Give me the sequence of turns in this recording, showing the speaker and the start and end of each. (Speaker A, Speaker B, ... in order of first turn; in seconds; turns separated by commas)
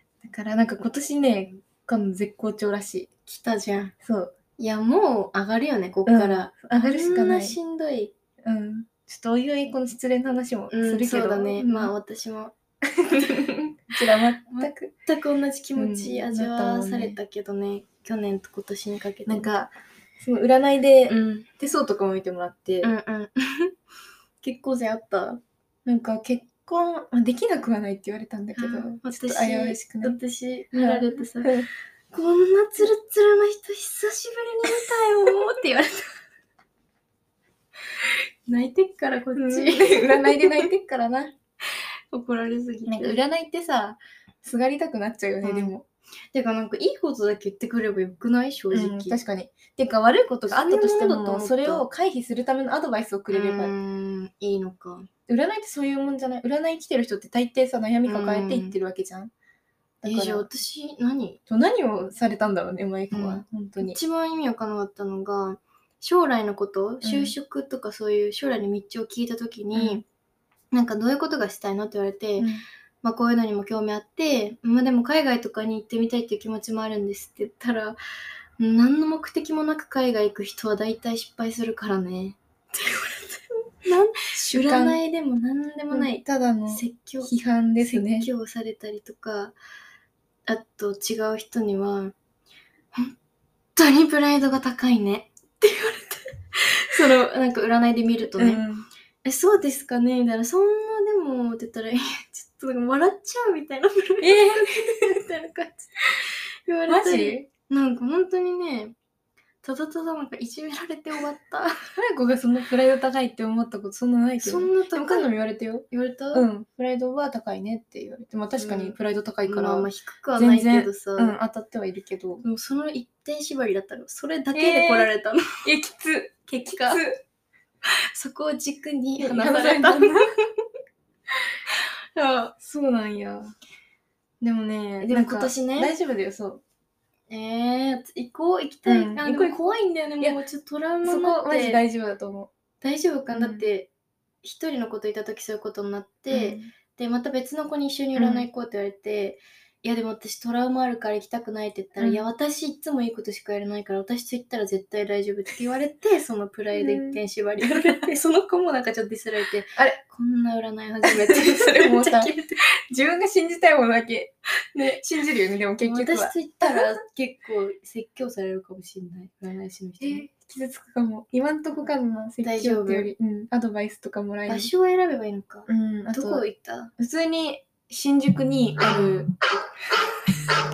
Speaker A: 0.2-3.1, Speaker B: 3.3-3.9, Speaker A: 4.0-4.3, Speaker B: 4.6-8.1, Speaker A: 6.0-7.6, Speaker A: 8.4-11.9, Speaker B: 10.7-12.5, Speaker A: 13.0-14.9, Speaker B: 14.5-19.5, Speaker A: 15.8-17.2, Speaker A: 19.2-22.9, Speaker B: 21.1-21.5, Speaker B: 22.8-23.7, Speaker B: 24.4-25.4, Speaker A: 25.8-30.2, Speaker B: 28.6-31.5, Speaker A: 30.7-31.7, Speaker B: 32.1-36.1, Speaker B: 38.5-40.7, Speaker A: 39.3-41.3, Speaker B: 42.1-43.2, Speaker A: 42.9-45.8, Speaker B: 45.4-45.7, Speaker B: 46.3-49.2, Speaker A: 48.7-53.7, Speaker B: 50.5-51.9, Speaker B: 53.3-55.1, Speaker A: 55.3-59.3, Speaker B: 58.0-58.7, Speaker A: 60.0-60.5, Speaker B: 60.0-61.4, Speaker A: 61.5-64.0, Speaker B: 63.1-70.0, Speaker A: 67.0-67.3, Speaker A: 69.7-70.0, Speaker B: 70.7-72.5, Speaker A: 72.4-72.6, Speaker B: 73.0-78.0, Speaker B: 78.6-89.5, Speaker A: 84.5-85.0, Speaker A: 85.9-88.3, Speaker B: 90.5-92.1, Speaker B: 93.8-98.6, Speaker A: 98.4-98.9, Speaker B: 99.2-105.9, Speaker A: 104.2-105.0, Speaker B: 106.7-108.9, Speaker A: 106.9-107.5, Speaker B: 109.6-111.8, Speaker A: 112.0-122.4, Speaker B: 114.4-115.3, Speaker B: 115.9-116.5, Speaker B: 118.6-121.4, Speaker B: 122.4-125.4, Speaker A: 124.5-125.1, Speaker A: 125.6-127.1, Speaker B: 126.5-127.0, Speaker B: 128.1-130.3, Speaker A: 129.2-130.2, Speaker B: 132.1-133.5, Speaker A: 134.4-136.6, Speaker B: 135.0-135.9, Speaker B: 137.3-141.8, Speaker A: 138.8-139.6, Speaker A: 141.0-142.5, Speaker B: 142.8-143.9, Speaker A: 143.3-143.6, Speaker B: 144.4-162.6, Speaker A: 146.3-146.7, Speaker A: 148.2-148.5, Speaker A: 152.0-152.2, Speaker A: 156.7-157.2, Speaker A: 157.7-157.9, Speaker A: 161.1-162.3, Speaker A: 162.9-164.3, Speaker B: 164.7-165.0, Speaker A: 165.0-166.9, Speaker B: 165.8-170.2, Speaker A: 170.0-174.7, Speaker B: 172.4-173.1, Speaker B: 174.5-176.9, Speaker A: 175.7-176.4, Speaker A: 177.0-179.3